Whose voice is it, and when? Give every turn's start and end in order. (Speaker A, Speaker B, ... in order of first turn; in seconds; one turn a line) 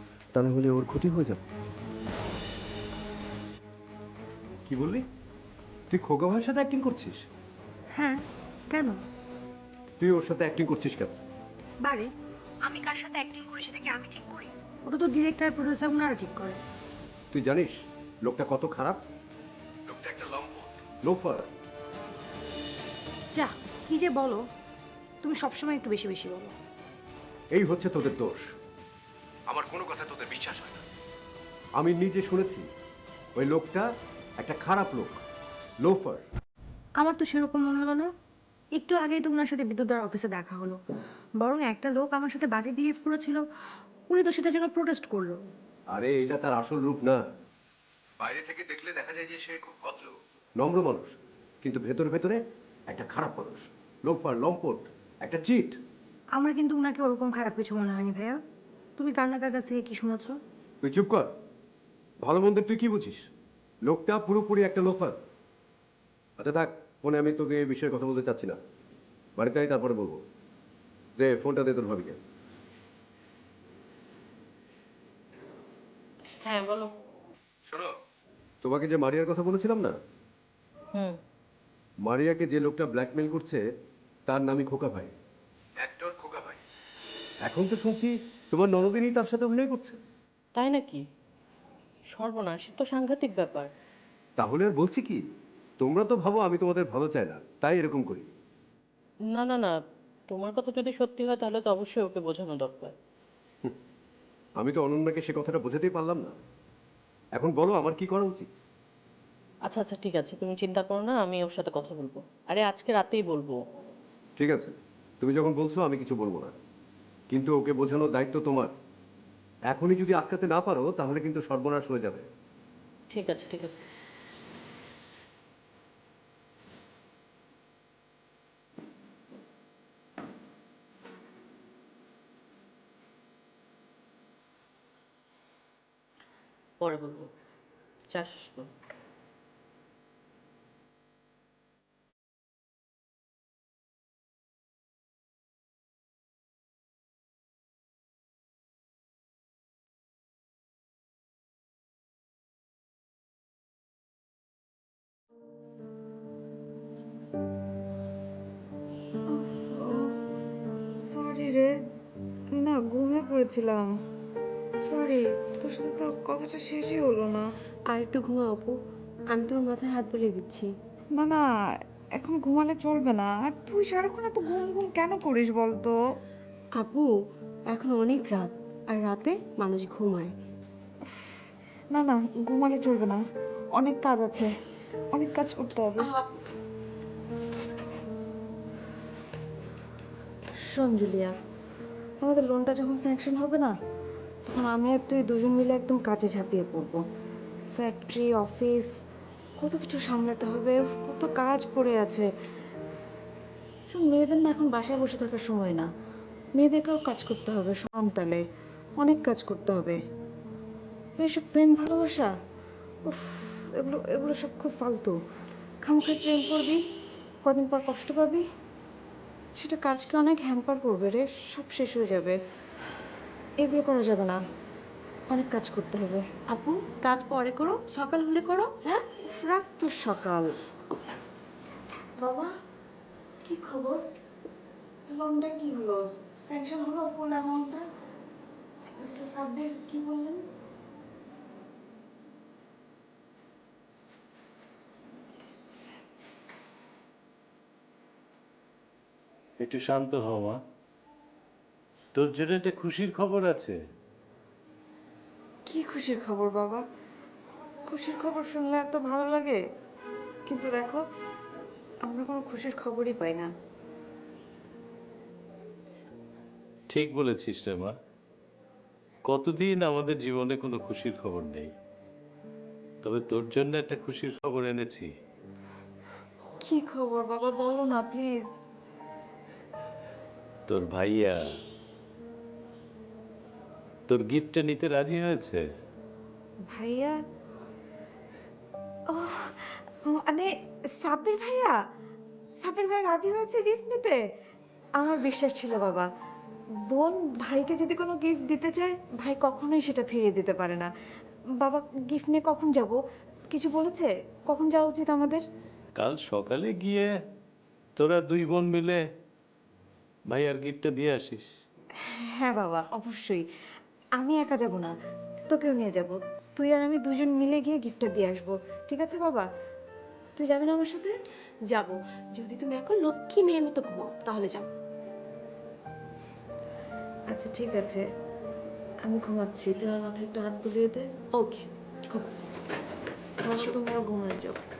Speaker A: 0.3-1.4
Speaker A: 4.7-5.0
Speaker A: 5.9-7.2
Speaker B: 8.0-9.0
Speaker A: 10.0-11.1
Speaker B: 12.7-16.6
Speaker A: 17.3-19.0
Speaker A: 19.9-21.5
Speaker B: 23.3-24.4
Speaker B: 25.2-26.5
Speaker A: 27.6-28.5
Speaker A: 29.5-30.8
Speaker A: 31.8-32.6
Speaker A: 33.4-33.9
Speaker A: 34.4-35.2
Speaker A: 35.8-36.2
Speaker B: 37.0-38.1
Speaker B: 38.7-40.8
Speaker B: 41.4-43.4
Speaker B: 44.1-45.4
Speaker A: 45.9-47.2
Speaker A: 48.2-55.8
Speaker B: 56.4-58.4
Speaker B: 59.0-60.3
Speaker A: 60.8-61.3
Speaker A: 62.2-63.3
Speaker A: 63.9-65.2
Speaker A: 66.4-68.6
Speaker A: 69.4-70.2
Speaker A: 71.2-72.2
Speaker C: 76.4-76.9
Speaker A: 77.7-77.9
Speaker A: 78.6-80.0
Speaker A: 82.0-83.6
Speaker A: 84.3-85.1
Speaker A: 85.8-86.6
Speaker A: 87.4-90.0
Speaker C: 90.5-91.0
Speaker C: 92.1-93.7
Speaker A: 94.4-95.2
Speaker A: 95.8-98.3
Speaker C: 99.3-99.7
Speaker C: 100.3-102.9
Speaker A: 104.6-106.4
Speaker A: 107.3-108.5
Speaker C: 109.7-113.6
Speaker A: 114.4-116.5
Speaker A: 117.3-118.7
Speaker A: 119.7-122.2
Speaker C: 123.1-123.8
Speaker C: 136.8-137.3
Speaker C: 138.1-138.7
Speaker D: 159.3-160.1
Speaker D: 161.1-161.7
Speaker D: 162.6-163.9
Speaker D: 164.9-167.5
Speaker E: 167.9-168.7
Speaker E: 169.3-170.7
Speaker D: 171.2-171.4
Speaker D: 172.2-175.9
Speaker E: 176.8-177.1
Speaker E: 177.7-180.3
Speaker D: 181.9-183.2
Speaker D: 183.8-184.5
Speaker D: 185.1-186.1
Speaker D: 190.7-191.3
Speaker D: 192.2-193.7
Speaker D: 194.5-197.0
Speaker D: 197.8-198.9
Speaker D: 199.6-202.2
Speaker D: 203.9-205.8
Speaker D: 206.6-208.4
Speaker D: 209.0-209.9
Speaker D: 211.2-212.3
Speaker D: 213.1-215.1
Speaker D: 215.9-216.8
Speaker D: 217.5-218.4
Speaker D: 219.6-222.3
Speaker D: 223.6-224.4
Speaker D: 225.3-226.2
Speaker E: 227.3-227.8
Speaker D: 229.2-230.5
Speaker D: 232.2-232.5
Speaker D: 233.4-234.0
Speaker D: 235.1-237.8
Speaker D: 238.9-240.4
Speaker F: 249.6-250.6
Speaker F: 252.1-253.8
Speaker D: 255.7-256.8
Speaker D: 257.9-259.6
Speaker D: 260.5-261.0
Speaker D: 262.1-263.5
Speaker F: 266.9-267.9
Speaker F: 269.2-271.7
Speaker F: 273.0-275.1
Speaker D: 276.6-278.5
Speaker F: 280.7-281.4
Speaker F: 284.1-285.6
Speaker D: 286.7-287.1
Speaker D: 289.1-290.5
Speaker D: 291.0-291.7
Speaker D: 292.6-294.2
Speaker D: 295.0-296.1
Speaker D: 296.9-300.9
Speaker D: 301.6-303.0
Speaker D: 303.5-305.4
Speaker F: 306.0-307.1
Speaker F: 308.0-309.0
Speaker F: 310.3-311.4
Speaker D: 312.1-313.4
Speaker D: 314.2-314.9
Speaker D: 315.5-319.4
Speaker D: 320.4-321.1
Speaker E: 321.7-324.7
Speaker D: 327.3-328.0
Speaker D: 329.1-331.1
Speaker E: 331.3-331.6
Speaker D: 333.5-334.6